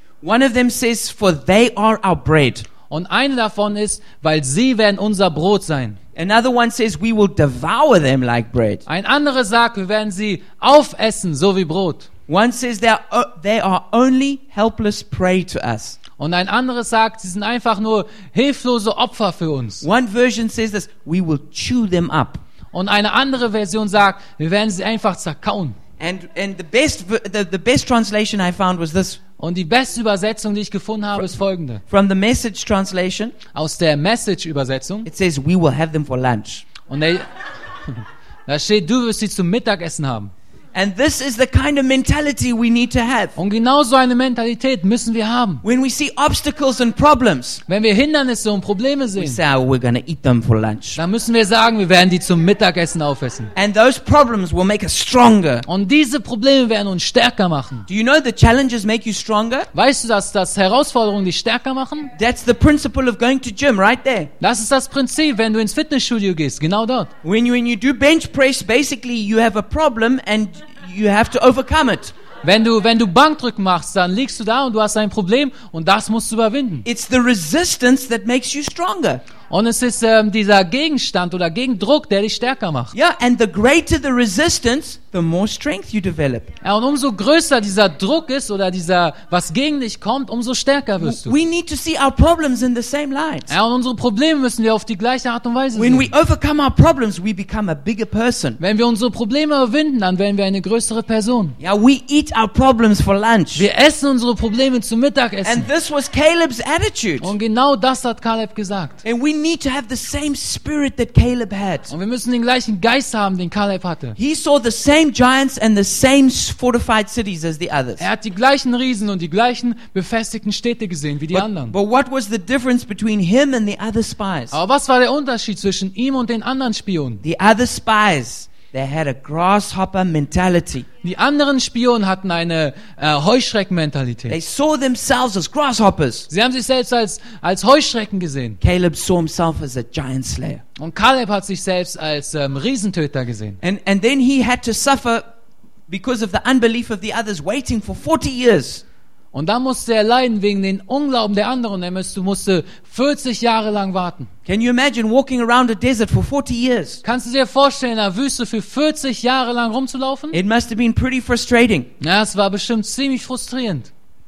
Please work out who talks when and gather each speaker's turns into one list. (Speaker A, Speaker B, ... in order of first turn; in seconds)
Speaker A: 0.2-2.7, 6.2-8.8, 12.3-16.0, 19.8-22.4, 26.0-29.2, 31.9-33.4, 35.0-36.7, 40.7-43.4, 45.6-47.6, 49.2-51.0, 53.5-55.6, 57.9-59.7, 62.2-64.3, 67.2-72.1, 76.8-79.2, 82.9-86.5, 91.0-93.5, 95.8-98.6, 101.6-103.7, 105.4-107.3, 109.0-111.9, 114.2-118.0, 121.3-124.6, 127.2-130.9, 134.3-136.3, 138.6-140.6, 143.6-145.2, 145.9-148.8, 154.5-157.0, 160.3-161.9
Speaker B: 2.9-6.0, 8.9-12.1, 16.2-19.9, 22.7-25.8, 29.4-31.8, 33.5-35.1, 36.9-37.3, 37.9-40.3, 43.4-45.6, 47.7-49.4, 51.0-53.5, 55.7-57.9, 59.7-62.1, 64.4-67.1, 72.4-76.8, 79.5-82.9, 86.6-91.4, 93.5-96.1, 98.6-101.6, 103.5-105.7, 107.2-109.0, 111.9-114.2, 118.0-121.8, 124.5-127.2, 131.0-134.4, 136.3-138.6, 140.8-143.6, 149.3-154.3, 157.0-160.4, 162.0-163.9